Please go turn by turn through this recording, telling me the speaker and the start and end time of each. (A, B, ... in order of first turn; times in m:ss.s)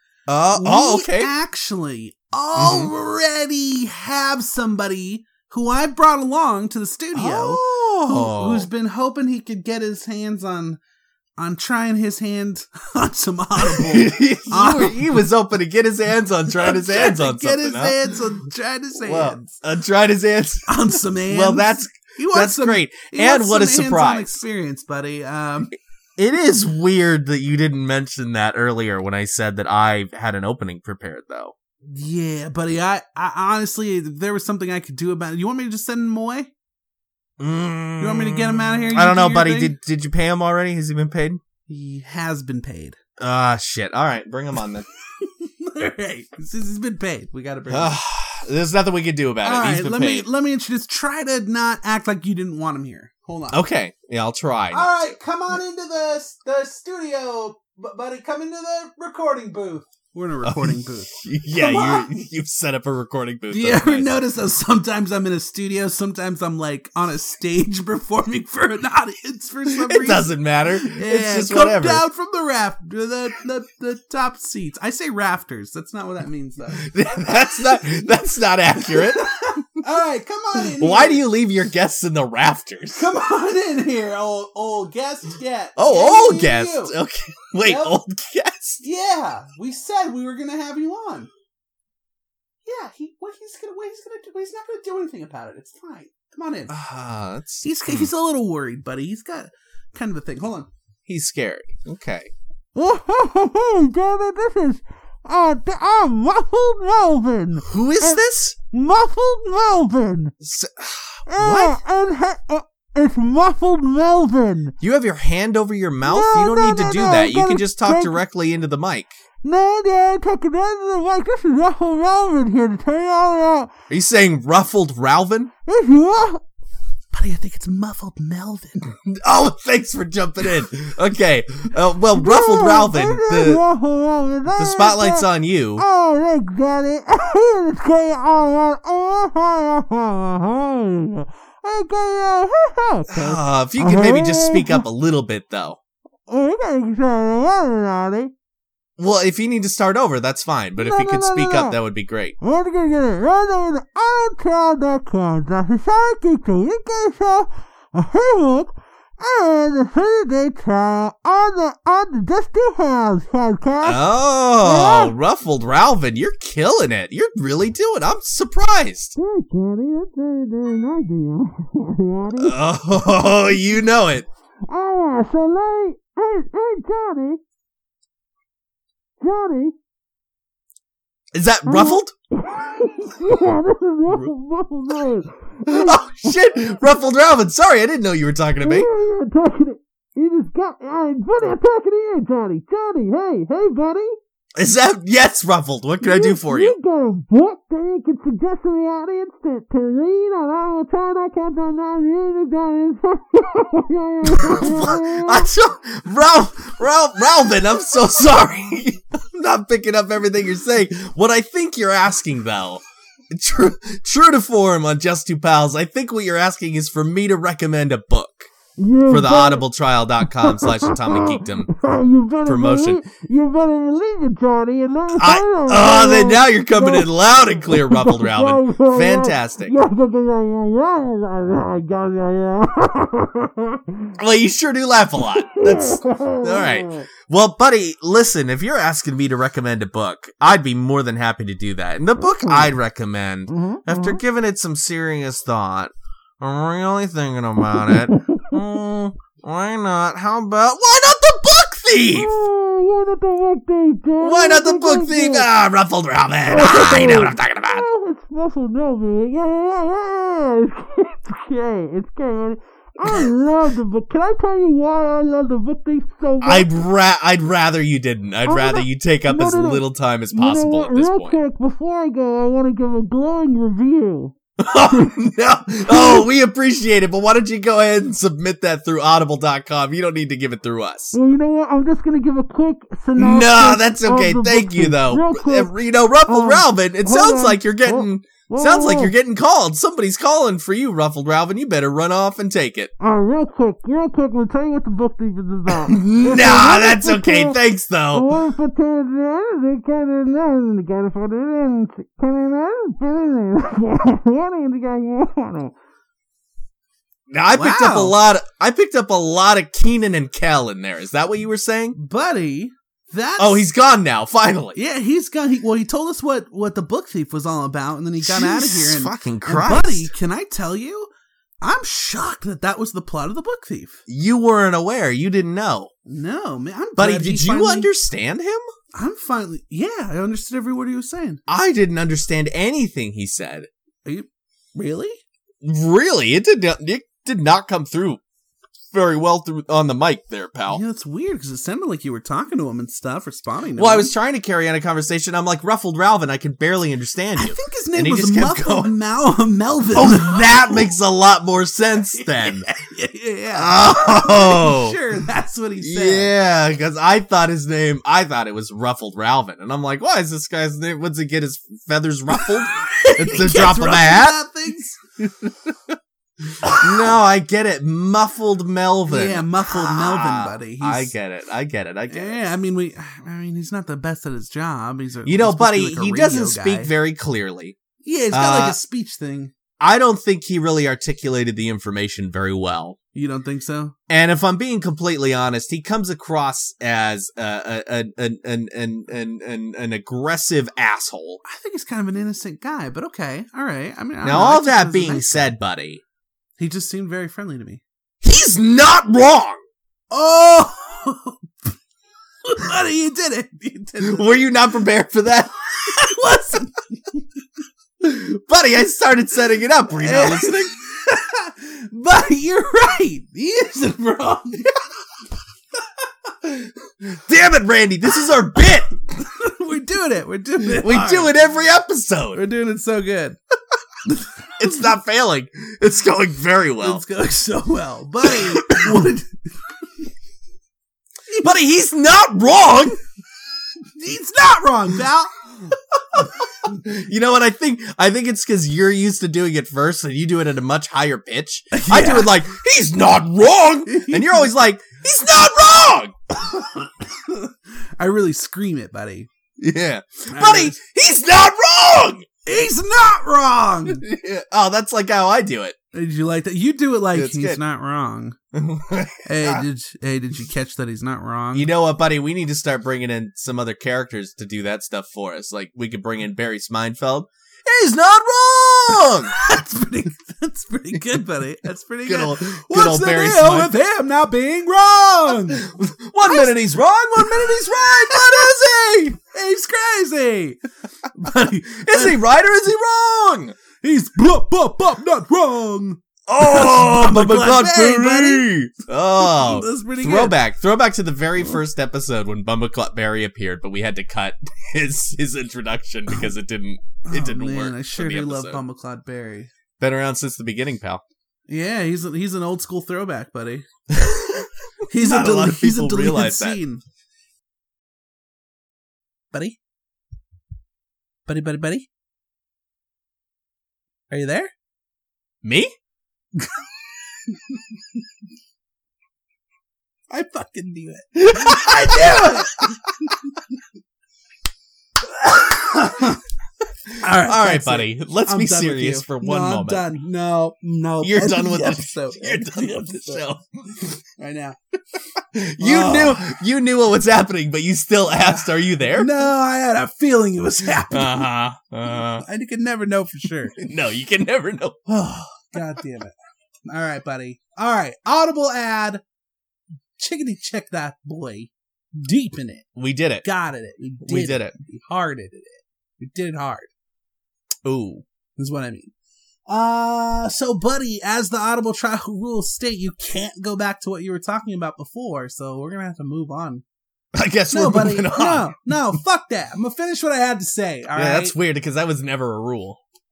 0:00.3-0:01.3 A
0:00.5-0:10.8 B
0:02.6-0:02.9 A
0:07.1-0:08.7 A
0:11.4-0:15.1 B
0:13.6-0:18.2 A
0:16.6-0:19.5 B
0:19.0-0:24.4 A
0:20.7-0:25.7 B
0:26.2-0:31.5 A
0:31.8-0:36.5 B
0:37.4-0:41.4 A
0:38.0-0:39.7 B
0:41.7-0:43.0 B
0:43.2-0:44.9 A
0:45.2-0:48.0 B
0:47.7-0:50.3 A
0:49.4-0:53.6 B
0:53.5-0:55.1 A
0:54.7-1:02.1 B
1:00.4-1:04.1 A
1:03.5-1:16.9 B
1:09.7-1:12.0 A
1:16.8-1:19.3 A
1:17.8-1:18.1 B
1:18.8-1:21.2 B
1:20.6-1:23.1 A
1:23.0-1:26.9 B
1:25.8-1:28.8 A
1:27.6-1:28.0 B
1:28.8-1:31.3 B
1:32.7-1:36.8 B
1:36.7-1:38.1 A
1:37.6-1:40.7 B
1:41.1-1:42.3 A
1:42.8-1:50.3 C
1:47.6-1:48.6 A
1:50.4-1:51.8 A
1:51.3-1:54.7 C
1:54.8-1:59.2 A
1:56.0-1:58.2 C
1:59.4-2:03.7 C
2:03.9-2:05.5 A
2:05.7-2:06.4 C
2:07.1-2:08.8 B
2:09.1-2:13.6 A
2:12.2-2:24.8 C
2:14.5-2:15.8 A
2:23.1-2:25.8 A
2:26.3-2:28.3 C
2:29.0-2:32.4 A
2:30.8-2:31.8 C
2:32.4-2:44.0 C
2:43.8-2:49.2 A
2:44.6-2:45.1 C
2:49.2-2:52.6 C
2:52.4-2:54.3 A
2:54.7-2:57.4 C
2:59.2-2:59.7 C
3:01.3-3:02.1 A
3:01.7-3:06.4 C
3:04.1-3:04.3 A
3:05.6-3:08.9 A
3:08.6-3:14.2 C
3:14.6-3:16.8 A
3:16.0-3:25.5 C
3:24.2-3:38.5 A
3:38.8-3:39.6 C
3:39.1-3:41.7 A
3:40.2-3:47.1 C
3:42.5-3:43.0 A
3:45.2-3:49.8 A
3:47.6-3:54.1 C
3:54.2-4:12.4 A
3:55.5-3:57.1 C
4:03.5-4:04.2 C
4:07.9-4:08.6 C
4:12.1-4:15.5 C
4:14.2-4:17.8 A
4:16.5-4:26.8 C
4:26.4-4:31.4 A
4:28.5-4:29.8 C
4:30.3-4:34.4 C
4:34.6-4:41.2 A
4:34.9-4:35.2 C
4:35.8-4:36.2 C
4:41.1-4:45.8 C
4:43.2-4:52.9 A
4:46.3-4:49.1 C
4:53.0-5:05.7 C
4:55.7-4:58.3 A
5:07.3-5:12.0 A
5:07.5-5:08.2 B
5:12.0-5:13.7 B
5:13.4-5:14.8 A
5:14.8-5:21.1 B
5:18.2-5:20.1 A
5:21.6-5:24.0 B
5:24.1-5:25.9 A
5:26.1-5:27.9 B
5:27.0-5:28.6 A
5:29.0-5:31.4 B
5:31.5-5:33.7 A
5:34.0-5:35.2 B
5:35.6-5:38.2 A
5:38.9-5:40.8 A
5:40.7-5:44.1 B
5:43.8-5:48.9 A
5:47.4-5:50.9 B
5:49.9-5:52.7 A
5:52.2-5:56.3 B
5:53.6-5:55.0 A
5:55.8-6:04.4 A
6:02.4-6:05.3 B
6:06.6-6:07.1 B
6:06.7-6:12.4 A
6:09.1-6:11.1 B
6:12.1-6:16.9 B
6:15.2-6:17.8 A
6:18.0-6:19.5 B
6:18.3-6:18.8 A
6:19.8-6:23.0 A
6:23.1-6:24.0 B
6:24.1-6:31.4 A
6:31.4-6:35.6 B
6:34.2-6:36.0 A
6:36.6-6:37.8 B
6:38.2-6:39.6 A
6:40.1-6:41.7 B
6:42.4-6:44.3 B
6:44.0-6:45.5 A
6:45.8-6:47.3 B
6:48.0-6:50.7 A
6:49.9-6:54.8 B
6:56.4-6:58.9 A
6:59.2-7:01.4 B
7:00.6-7:02.4 A
7:02.4-7:03.4 B
7:04.6-7:07.0 A
7:06.8-7:09.4 B
7:08.2-7:09.1 A
7:11.4-7:13.0 A
7:13.9-7:15.8 B
7:16.1-7:26.6 A
7:21.7-7:22.4 B
7:23.9-7:24.6 B
7:26.6-7:29.3 B
7:29.6-7:32.3 A
7:30.3-7:30.8 B
7:32.4-7:34.0 B
7:33.9-7:35.8 A
7:35.9-7:38.4 B
7:37.1-7:37.6 A
7:38.5-7:39.6 A
7:39.2-7:41.7 B
7:41.5-7:49.3 A
7:49.3-7:55.6 B
7:52.1-7:53.8 A
7:55.5-7:59.2 A
7:57.2-7:58.5 B
7:59.2-8:02.2 B
8:01.8-8:03.6 A
8:03.8-8:08.5 B
8:06.3-8:18.6 A
8:09.2-8:10.4 B
8:17.0-8:19.5 B
8:19.8-8:21.0 A
8:21.5-8:23.7 B
8:23.9-8:26.6 A
8:24.9-8:26.8 B
8:29.3-8:29.6 B
8:31.3-8:31.9 B
8:34.1-8:34.5 B
8:35.4-8:35.7 A
8:36.4-8:36.6 B
8:40.1-8:43.4 B
8:41.2-8:42.8 A
8:45.2-8:46.2 B
8:45.7-8:46.1 A
8:46.9-8:49.9 A
8:47.0-8:53.3 B
8:51.0-8:54.0 A
8:54.2-8:54.6 B
8:55.2-8:59.1 A
8:55.6-8:56.3 B
8:58.2-9:01.3 B
9:00.9-9:02.2 A
9:02.2-9:03.6 B
9:03.6-9:04.8 A
9:04.9-9:06.1 B
9:06.7-9:09.0 B
9:10.0-9:12.7 B
9:12.8-9:13.2 A
9:13.2-9:16.7 B
9:14.0-9:14.5 A
9:17.6-9:18.0 A
9:18.4-9:18.9 B
9:19.5-9:26.6 B
9:27.2-9:29.0 A
9:27.5-9:31.4 B
9:31.0-9:32.8 A